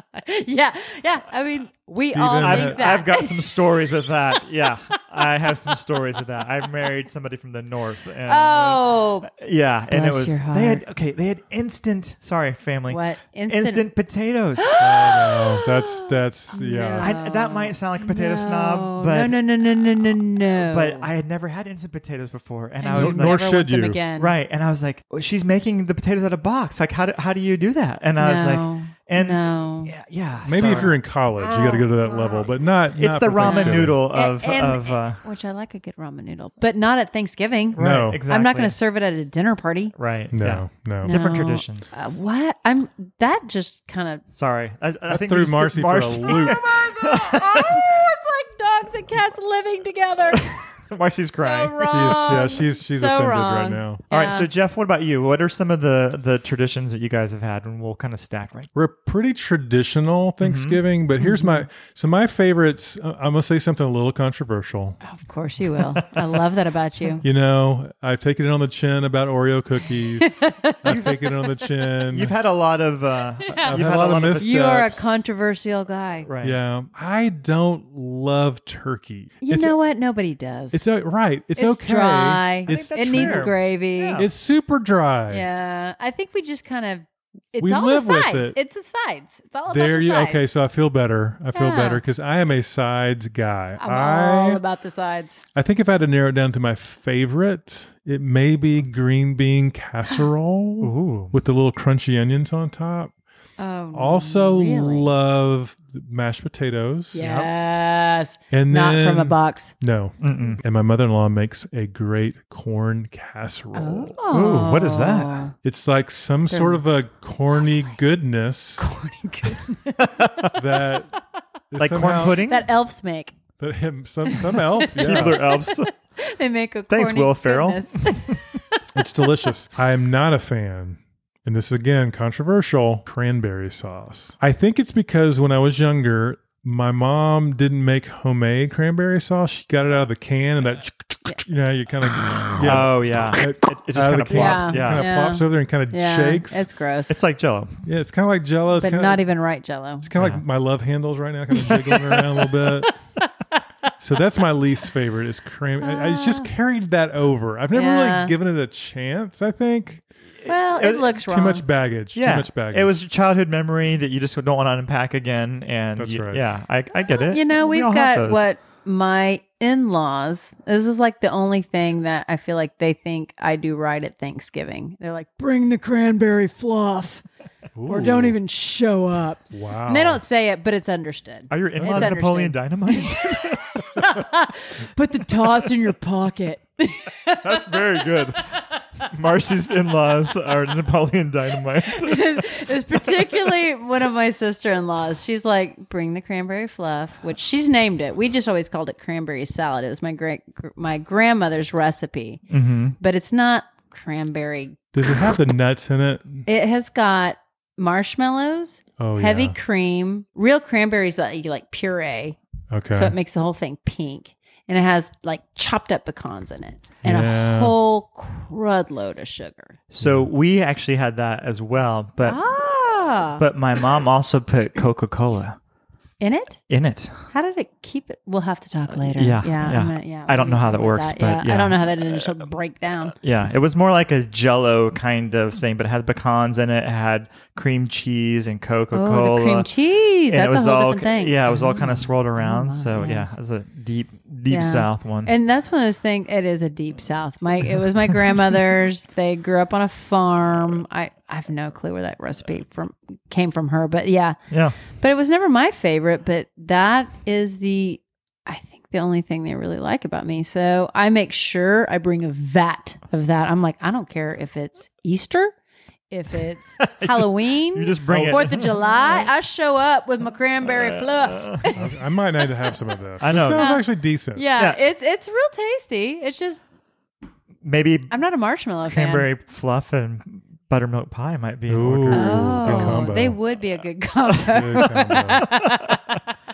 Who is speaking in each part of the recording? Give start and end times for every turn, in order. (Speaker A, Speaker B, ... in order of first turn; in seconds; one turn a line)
Speaker A: 0.1-3.5
Speaker B: 2.1-2.9
Speaker C: 2.4-14.7
Speaker A: 8.2-9.3
Speaker A: 9.9-10.8
Speaker A: 12.9-13.8
Speaker A: 14.6-21.1
Speaker B: 14.8-17.1
Speaker C: 17.0-19.4
Speaker C: 20.7-23.4
Speaker A: 22.8-24.3
Speaker B: 23.0-24.0
Speaker C: 24.1-30.9
Speaker A: 28.2-29.9
Speaker B: 30.4-34.0
Speaker A: 30.6-32.4
Speaker C: 32.9-35.2
Speaker A: 33.4-39.9
Speaker C: 37.7-38.8
Speaker B: 37.8-38.2
Speaker C: 40.0-41.9
Speaker B: 40.3-41.1
Speaker A: 41.0-44.2
Speaker C: 44.3-47.8
Speaker B: 45.1-46.6
Speaker A: 46.3-50.6
Speaker C: 50.3-52.5
Speaker A: 51.3-54.5
Speaker B: 51.9-54.0
Speaker C: 54.1-58.7
Speaker B: 58.7-65.0
Speaker C: 60.4-60.8
Speaker A: 61.2-61.7
Speaker A: 65.0-67.2
Speaker B: 67.2-72.3
Speaker A: 70.2-71.7
Speaker C: 70.8-71.1
Speaker C: 72.1-74.5
Speaker A: 73.4-76.3
Speaker B: 73.5-75.2
Speaker C: 76.2-76.6
Speaker B: 76.4-79.8
Speaker A: 79.4-80.8
Speaker B: 80.7-83.5
Speaker A: 81.5-84.2
Speaker C: 82.7-84.3
Speaker B: 84.2-85.4
Speaker A: 85.3-90.5
Speaker B: 87.6-88.5
Speaker B: 89.7-94.6
Speaker A: 91.5-92.0
Speaker A: 93.8-95.4
Speaker B: 95.5-103.1
Speaker C: 100.8-101.3
Speaker A: 103.6-105.1
Speaker B: 103.9-107.5
Speaker A: 107.1-109.8
Speaker B: 108.5-114.2
Speaker C: 110.2-110.6
Speaker A: 113.7-115.5
Speaker C: 114.3-115.4
Speaker B: 115.6-118.9
Speaker A: 116.5-116.8
Speaker A: 118.8-120.0
Speaker C: 120.0-120.6
Speaker B: 120.5-121.1
Speaker B: 121.7-122.4
Speaker C: 121.8-122.6
Speaker A: 122.5-123.4
Speaker B: 123.6-125.4
Speaker A: 124.2-129.5
Speaker C: 125.0-125.9
Speaker C: 126.9-128.4
Speaker B: 128.9-146.7
Speaker C: 142.6-145.1
Speaker A: 144.3-147.2
Speaker C: 147.1-147.8
Speaker B: 147.8-149.2
Speaker A: 148.8-150.1
Speaker B: 150.0-153.0
Speaker C: 150.2-150.4
Speaker A: 151.6-153.2
Speaker B: 154.0-160.0
Speaker A: 155.8-156.5
Speaker A: 157.7-158.3
Speaker C: 160.4-161.2
Speaker A: 160.4-161.6
Speaker B: 161.3-162.9
Speaker C: 162.1-168.4
Speaker B: 166.0-166.4
Speaker A: 167.1-177.2
Speaker B: 177.8-178.3
Speaker A: 177.9-188.1
Speaker B: 179.5-180.2
Speaker C: 181.5-183.8
Speaker B: 181.8-182.1
Speaker C: 187.4-192.5
Speaker A: 191.9-202.4
Speaker C: 202.5-203.0
Speaker A: 203.0-204.8
Speaker B: 204.9-206.4
Speaker A: 206.5-212.4
Speaker B: 209.0-209.5
Speaker B: 212.7-213.1
Speaker A: 212.9-219.8
Speaker B: 217.0-217.7
Speaker C: 219.9-222.4
Speaker B: 220.0-220.3
Speaker A: 222.2-223.4
Speaker C: 223.4-225.6
Speaker A: 226.2-226.6
Speaker C: 226.7-227.3
Speaker A: 227.3-233.1
Speaker C: 229.0-231.8
Speaker C: 233.2-239.7
Speaker A: 238.9-243.3
Speaker C: 240.3-245.3
Speaker A: 244.5-254.4
Speaker C: 254.5-254.8
Speaker A: 254.9-265.5
Speaker A: 266.1-276.6
Speaker C: 266.8-269.3
Speaker B: 268.1-268.7
Speaker C: 270.9-271.6
Speaker B: 271.7-274.5
Speaker C: 273.2-273.7
Speaker C: 274.6-274.8
Speaker C: 277.6-278.1
Speaker A: 278.1-279.3
Speaker C: 278.8-283.1
Speaker B: 281.7-283.4
Speaker A: 282.1-286.2
Speaker C: 284.4-286.0
Speaker B: 284.5-285.6